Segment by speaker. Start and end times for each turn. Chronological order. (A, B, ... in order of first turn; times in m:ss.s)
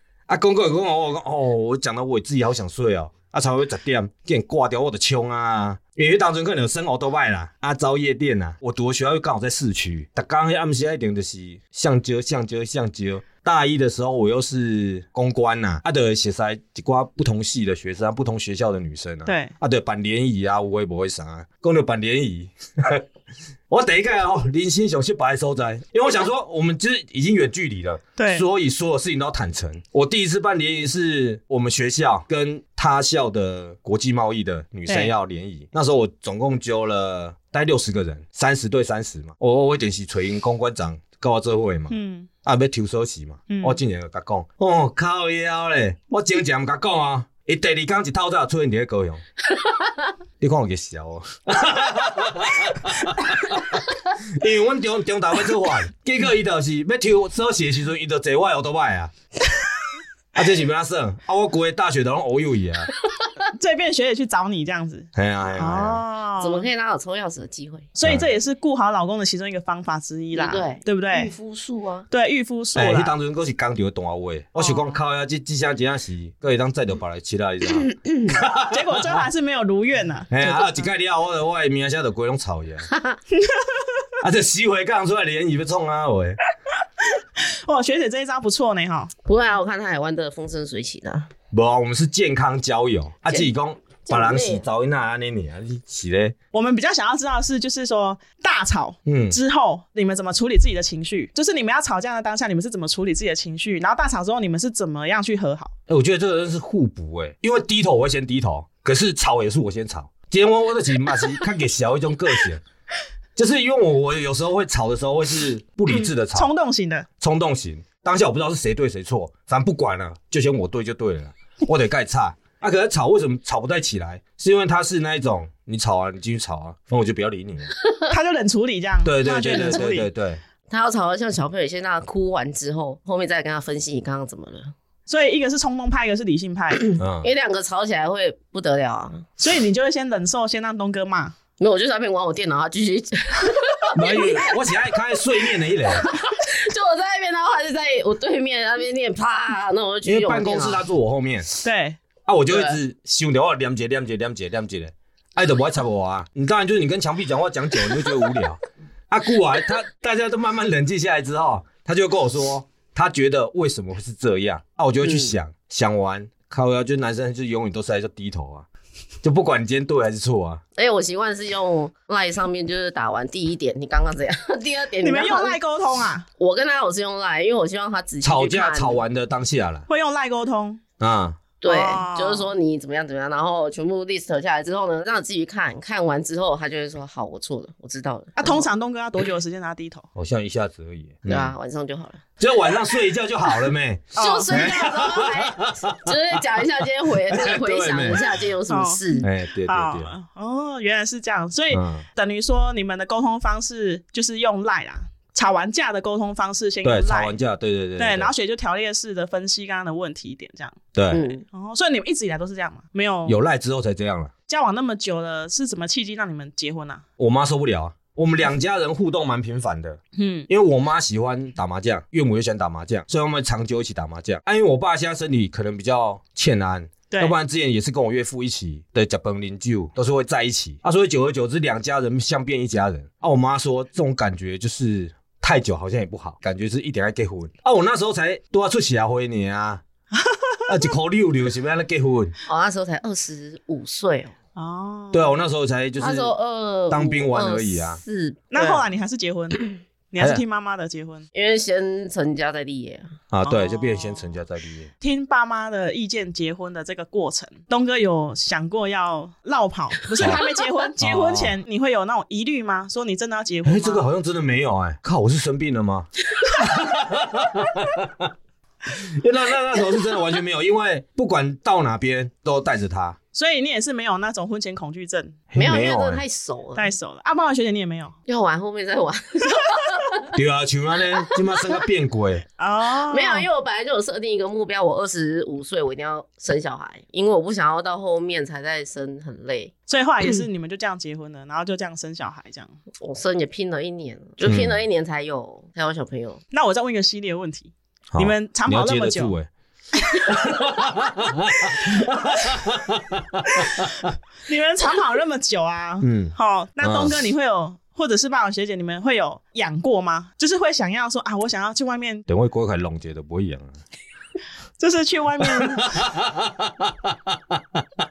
0:00.3-0:23.0 A
0:19.3-0:19.6 B
0:23.7-0:49.2 A
0:28.2-0:28.4 B
0:41.9-0:42.3 B
0:43.5-0:43.8 B
0:50.4-0:59.1 A
1:00.4-1:02.9 A
1:03.5-1:06.7 B
1:05.2-1:06.0 A
1:06.4-1:07.9 C
1:08.0-1:11.3 B
1:10.3-1:12.1 C
1:12.1-1:13.1 B
1:12.8-1:19.2 A
1:14.6-1:15.0 B
1:18.7-1:20.8 B
1:20.3-1:22.9 A
1:22.9-1:23.2 C
1:24.2-1:26.4 A
1:27.4-1:29.1 B
1:29.3-1:31.3 C
1:31.5-1:36.4 A
1:34.0-1:34.6 C
1:36.5-1:45.7 B
1:39.1-1:39.4 A
1:45.9-1:52.6 A
1:53.4-1:56.5 A
1:55.9-1:57.1 B
1:57.2-2:07.7 A
2:08.1-2:10.1 B
2:09.0-2:10.4 A
2:10.7-2:14.7 C
2:15.1-2:16.8 B
2:16.9-2:19.3 C
2:17.0-2:17.3 A
2:19.4-2:21.4 B
2:21.6-2:24.5 C
2:24.0-2:26.1 A
2:25.9-2:30.8 C
2:30.0-2:31.5 A
2:31.6-2:32.0 B
2:32.3-2:38.6 A
2:32.5-2:32.8 C
2:39.1-2:48.7 A
2:45.0-2:45.3 C
2:49.2-2:50.6 A
2:50.8-2:55.6 C
2:55.0-2:56.3 B
2:56.4-2:59.0 C
2:58.2-2:59.9 A
2:59.9-3:00.8 B
3:01.0-3:01.4 A
3:01.6-3:08.7 C
3:01.6-3:02.5 B
3:08.4-3:10.1 B
3:10.2-3:11.5 A
3:11.3-3:12.2 C
3:12.4-3:16.2 A
3:14.2-3:19.3 C
3:14.2-3:14.8 B
3:17.3-3:18.3 A
3:18.7-3:27.4 B
3:19.2-3:20.1 A
3:21.7-3:22.0 A
3:26.8-3:28.3 A
3:28.0-3:30.8 B
3:31.0-3:31.3 A
3:31.1-3:31.4 C
3:31.5-3:33.4 B
3:33.3-3:34.3 A
3:34.5-3:37.0 B
3:37.2-3:59.8 A
3:40.2-3:40.5 B
4:00.2-4:00.7 B
4:00.7-4:02.3 A
4:02.5-4:04.3 C
4:04.6-4:05.4 B
4:05.1-4:06.3 A
4:06.0-4:08.8 C
4:06.9-4:08.0 A
4:08.5-4:11.3 B
4:11.3-4:13.1 C
4:13.3-4:14.9 A
4:13.4-4:14.3 B
4:15.0-4:24.0 B
4:21.0-4:21.6 A
4:23.6-4:28.3 A
4:29.0-4:33.2 A
4:33.3-4:35.4 B
4:35.5-4:36.2 A
4:35.6-4:36.9 C
4:36.8-4:38.2 B
4:38.3-4:40.3 C
4:40.3-4:42.4 A
4:42.6-4:43.5 B
4:43.1-4:49.7 C
4:49.9-4:52.8 B
4:53.0-4:56.4 C
4:54.4-4:54.8 A
4:56.5-4:59.4 B
4:58.1-4:59.5 A
5:00.0-5:00.4 B
5:00.3-5:04.1 A
5:03.6-5:03.9 B
5:04.5-5:12.3 B
5:06.0-5:07.2 A
5:12.3-5:13.8 A
5:14.8-5:16.0 B
5:15.5-5:17.8 A